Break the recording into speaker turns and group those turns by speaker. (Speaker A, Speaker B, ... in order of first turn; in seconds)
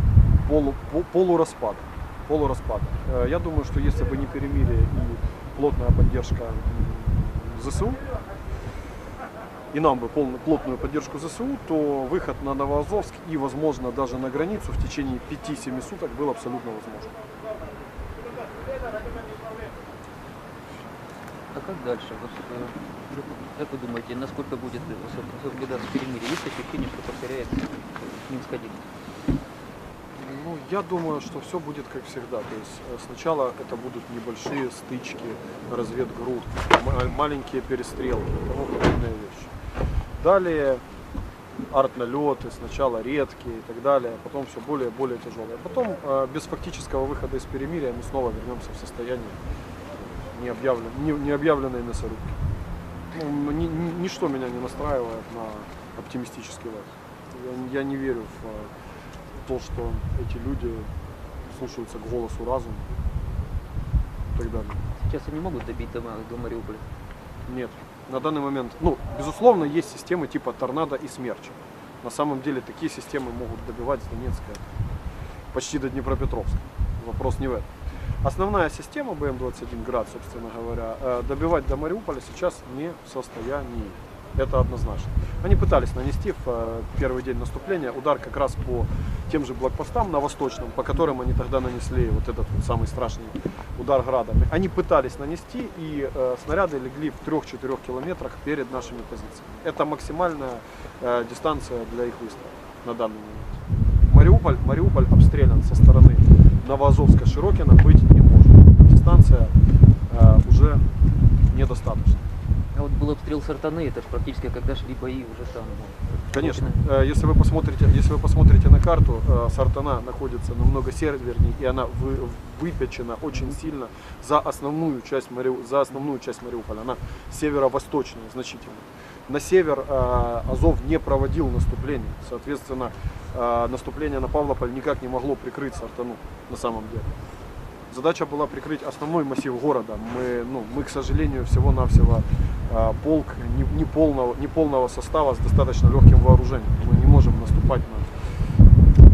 Speaker A: 0.4-8.0, 9.7-17.1, 30.1-39.5, 40.2-40.8, 41.7-49.4, 50.2-52.4, 53.1-58.7, 59.4-60.9, 61.5-62.9, 64.3-64.8, 67.5-74.7, 75.5-77.7, 78.2-109.5, 110.1-110.9, 111.5-112.2, 116.3-137.1, 137.9-148.1
Speaker B: 21.5-28.9, 65.0-66.9, 112.7-116.8